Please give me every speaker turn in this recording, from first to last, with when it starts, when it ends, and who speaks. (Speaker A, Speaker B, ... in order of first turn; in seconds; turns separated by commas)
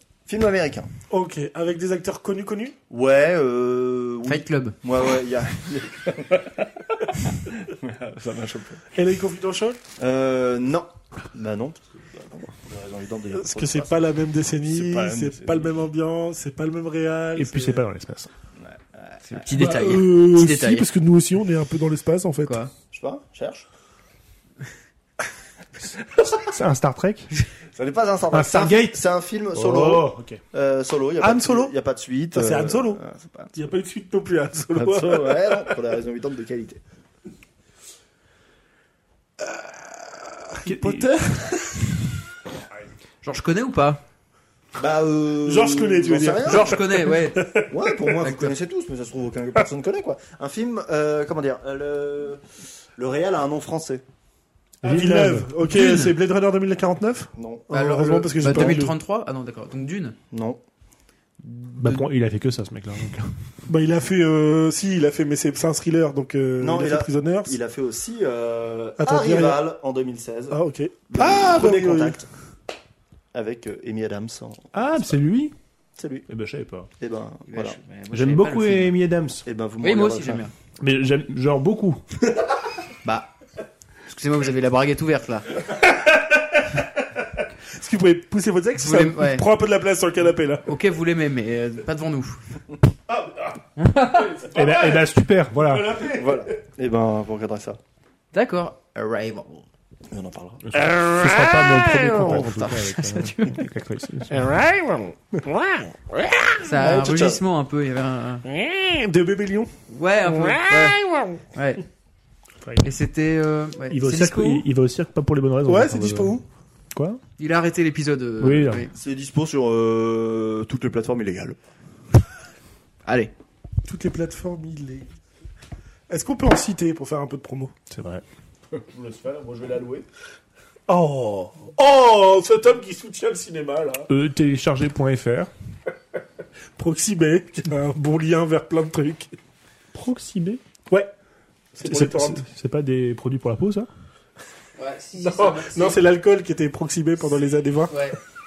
Speaker A: 0.3-0.9, Speaker B: 1.1-2.8, Speaker A: 2.9-8.9, Speaker C: 4.2-4.8, Speaker B: 8.9-9.8, Speaker A: 10.0-14.0, Speaker B: 13.3-17.9, Speaker A: 14.7-15.8, Speaker D: 17.4-18.3, Speaker A: 18.6-19.2, Speaker C: 19.2-20.9, Speaker B: 19.5-22.6, Speaker C: 22.5-22.7, Speaker A: 22.9-23.7, Speaker D: 26.4-27.3, Speaker A: 27.7-33.5, Speaker D: 28.3-29.0, Speaker D: 29.5-30.4, Speaker B: 31.2-31.7, Speaker B: 32.3-33.0, Speaker B: 33.5-35.8, Speaker A: 34.8-36.8, Speaker B: 39.5-41.9, Speaker D: 40.7-41.1, Speaker C: 43.2-44.0, Speaker A: 44.8-46.8, Speaker B: 45.4-47.8, Speaker C: 46.4-47.6, Speaker A: 47.7-52.4, Speaker C: 48.2-48.5, Speaker A: 53.0-54.0, Speaker D: 54.8-55.5, Speaker B: 54.8-59.0, Speaker C: 55.6-56.1, Speaker A: 57.4-57.6, Speaker C: 57.7-60.2, Speaker A: 58.4-58.8, Speaker A: 60.3-60.6, Speaker C: 61.5-62.0, Speaker D: 61.8-63.3, Speaker B: 63.7-67.6, Speaker A: 66.6-70.6, Speaker B: 69.0-69.6, Speaker B: 70.5-72.2, Speaker A: 71.1-72.2, Speaker A: 73.3-75.2, Speaker D: 74.7-75.5, Speaker A: 76.0-76.3, Speaker D: 76.3-76.9, Speaker A: 77.0-77.8, Speaker C: 77.5-79.0, Speaker D: 78.1-79.4, Speaker A: 79.5-80.5, Speaker C: 79.8-80.5, Speaker D: 80.8-82.0, Speaker C: 83.0-83.3, Speaker C: 84.1-85.6, Speaker B: 85.7-86.9, Speaker B: 87.7-90.7, Speaker C: 88.8-89.5, Speaker C: 90.7-92.4, Speaker C: 93.8-94.4, Speaker B: 93.8-95.1, Speaker D: 94.5-96.0, Speaker B: 95.7-96.5, Speaker A: 96.0-97.8, Speaker C: 98.3-99.7, Speaker A: 100.1-100.7, Speaker D: 100.7-104.5, Speaker C: 102.0-103.7, Speaker B: 104.3-106.5, Speaker C: 106.6-108.5, Speaker A: 106.7-107.4, Speaker B: 108.5-109.7, Speaker C: 109.9-111.0, Speaker B: 110.2-111.4, Speaker C: 111.5-111.8, Speaker C: 112.8-114.7, Speaker D: 113.9-116.4, Speaker B: 115.7-116.4, Speaker D: 116.9-117.2, Speaker C: 117.4-118.9, Speaker D: 118.4-118.9, Speaker A: 118.9-121.6, Speaker C: 123.0-123.3, Speaker B: 123.9-125.1, Speaker B: 126.1-127.7, Speaker D: 127.9-128.2, Speaker A: 128.7-130.1, Speaker D: 130.9-131.2, Speaker B: 131.6-134.1, Speaker D: 134.1-135.5, Speaker B: 136.8-139.3, Speaker D: 139.9-140.6, Speaker B: 141.7-142.4, Speaker D: 141.8-143.9, Speaker C: 144.8-146.0, Speaker B: 145.2-148.0, Speaker C: 147.9-148.2